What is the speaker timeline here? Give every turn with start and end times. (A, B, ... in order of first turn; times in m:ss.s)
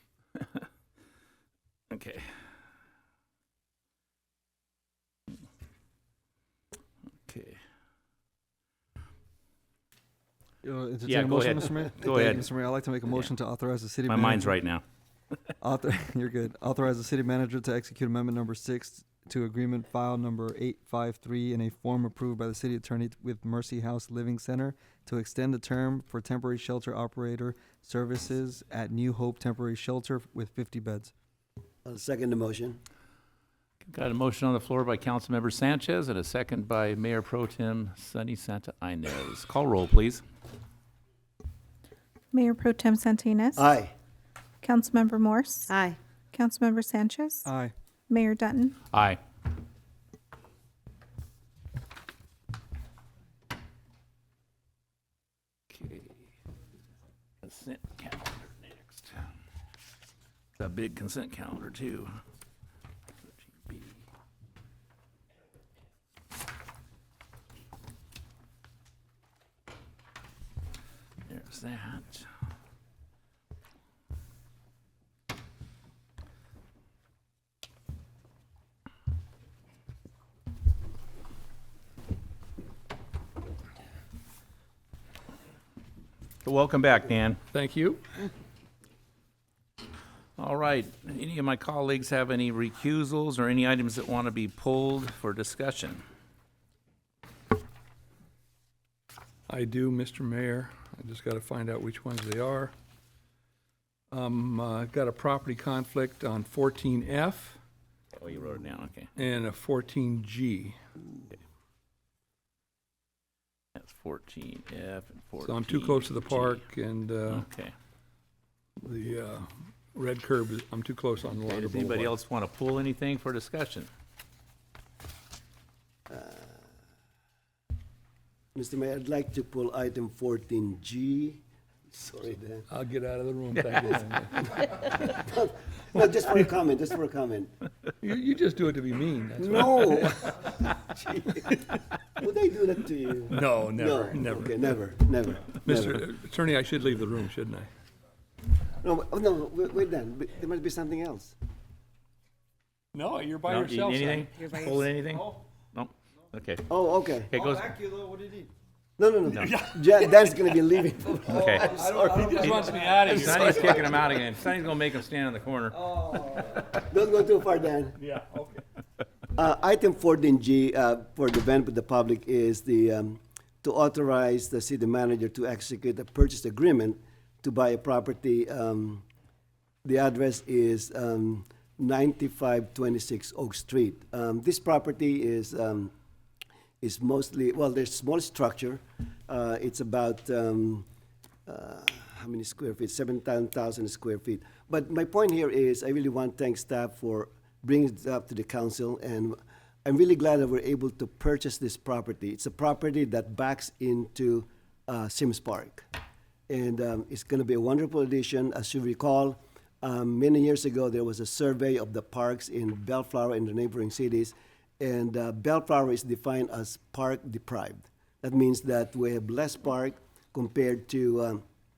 0:00.4-0:00.6 A
0:01.9-0:02.3 A
0:07.3-0:07.6 A
0:10.6-0:14.6 B
0:11.0-0:12.5 A
0:14.1-0:14.8 A
0:15.6-0:31.1 B
0:31.8-0:32.8 C
0:33.8-0:40.2 A
0:42.3-0:43.6 D
0:43.6-0:43.9 C
0:44.6-0:45.7 D
0:46.3-0:47.5 D
0:47.4-0:47.7 B
0:48.1-0:48.8 D
0:48.9-0:49.2 A
0:55.7-0:56.2 A
0:57.4-0:59.2 A
1:00.6-1:02.1 A
1:03.6-1:04.0 A
1:11.2-1:12.3 A
1:26.4-1:27.4 A
1:27.5-1:28.0 E
1:30.4-1:36.0 A
1:39.5-1:42.7 E
1:44.1-1:47.6 E
1:48.2-1:49.1 A
1:49.2-1:50.8 E
1:53.8-1:56.6 A
1:55.4-1:57.4 E
1:57.3-1:57.7 A
1:58.8-2:02.1 E
2:01.5-2:03.9 A
2:06.1-2:06.6 C
2:08.5-2:12.6 C
2:12.7-2:14.7 E
2:14.8-2:17.5 C
2:18.0-2:20.4 E
2:19.4-2:21.6 C
2:22.2-2:26.1 C
2:23.3-2:24.7 E
2:25.5-2:27.7 E
2:28.8-2:31.3 C
2:32.9-2:34.3 E
2:33.5-2:36.6 A
2:36.7-2:37.3 C
2:37.3-2:37.8 A
2:37.3-2:38.5 B
2:39.0-2:42.4 C
2:39.4-2:40.4 E
2:41.2-2:41.7 A
2:41.3-2:44.0 B
2:41.6-2:43.9 E
2:42.4-2:45.8 A
2:45.8-2:46.5 B
2:46.7-2:48.0 C
2:48.0-2:48.6 E
2:49.4-2:59.0 C
2:59.8-3:05.9 C
3:06.8-3:10.8 C
3:11.4-3:25.8 C
3:26.5-3:41.4 C